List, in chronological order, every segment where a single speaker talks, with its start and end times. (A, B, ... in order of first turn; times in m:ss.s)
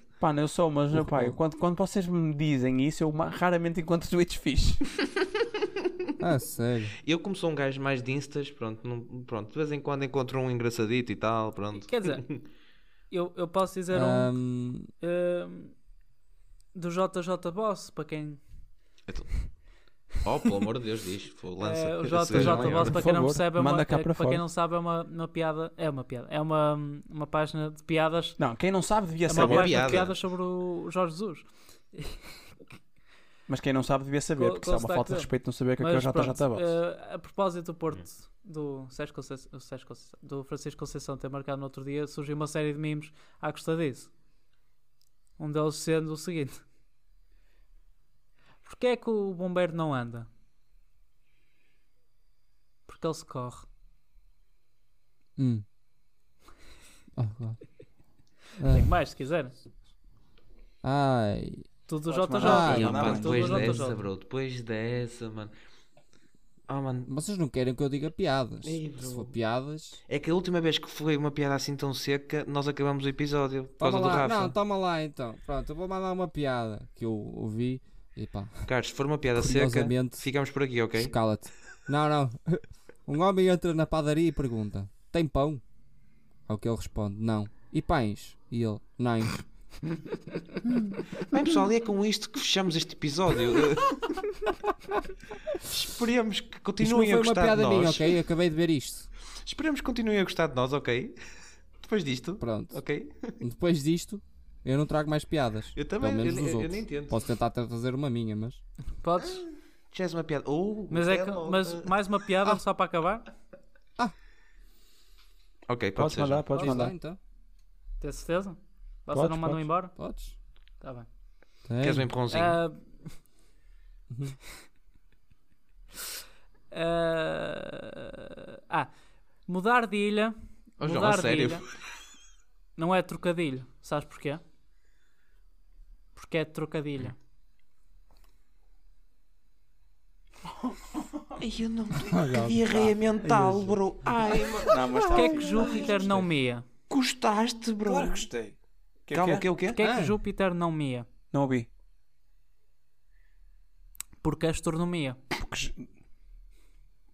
0:00.2-0:04.9 A
0:00.9-0:01.4 B
0:06.2-0:06.9 B
0:07.0-0:12.4 C
0:11.8-0:12.2 D
0:13.1-0:14.3 D
0:13.9-0:14.9 B
0:15.0-0:15.7 D
0:16.7-0:18.4 D
0:19.1-0:19.5 C
0:20.1-0:23.0 C
0:21.6-0:28.4 D
0:22.3-0:24.4 A
0:28.4-0:30.0 A
0:29.3-0:32.2 D
0:29.3-0:30.2 C
0:33.5-0:36.7 A
0:34.4-0:44.1 D
0:45.4-0:46.6 D
0:48.6-0:50.3 D
0:52.9-0:53.6 D
0:55.4-0:55.6 B
0:57.2-0:57.6 B
0:58.6-0:58.9 B
0:58.6-0:59.5 D
1:00.8-1:01.6 B
1:01.9-1:04.1 D
1:02.1-1:03.8 A
1:02.4-1:03.2 B
1:02.4-1:05.5 C
1:06.7-1:07.1 C
1:07.1-1:10.0 B
1:08.6-1:09.4 C
1:10.1-1:14.5 C
1:13.8-1:18.7 B
1:18.7-1:21.1 C
1:19.3-1:20.3 B
1:20.9-1:25.6 B
1:26.5-1:29.4 B
1:31.2-1:34.5 C
1:35.6-1:38.2 C
1:36.8-1:39.1 B
1:39.4-1:41.2 C
1:41.8-1:43.4 C
1:42.4-1:42.8 B
1:43.4-1:48.6 B
1:45.7-1:47.2 C
1:49.0-1:49.4 D
1:49.2-1:51.9 C
1:50.9-1:53.2 D
1:55.7-1:56.5 C
1:56.0-1:56.9 A
1:56.6-1:57.2 B
1:58.0-1:59.9 D
1:59.1-1:59.7 A
2:00.0-2:00.4 B
2:00.8-2:01.1 D
2:01.7-2:02.1 B
2:01.8-2:02.6 C
2:02.3-2:03.1 D
2:04.1-2:04.4 B
2:06.7-2:08.9 D
2:09.5-2:11.6 D
2:10.8-2:11.7 C
2:12.8-2:14.4 D
2:16.1-2:17.1 D
2:20.6-2:21.1 A
2:21.4-2:26.2 C
2:22.0-2:24.5 B
2:24.6-2:26.2 A
2:25.1-2:26.6 D
2:26.9-2:28.2 C
2:27.8-2:28.6 A
2:29.1-2:29.4 A
2:29.1-2:29.8 C
2:29.7-2:31.0 D
2:29.8-2:30.2 B
2:31.3-2:31.7 A
2:34.2-2:35.2 D
2:35.3-2:35.9 A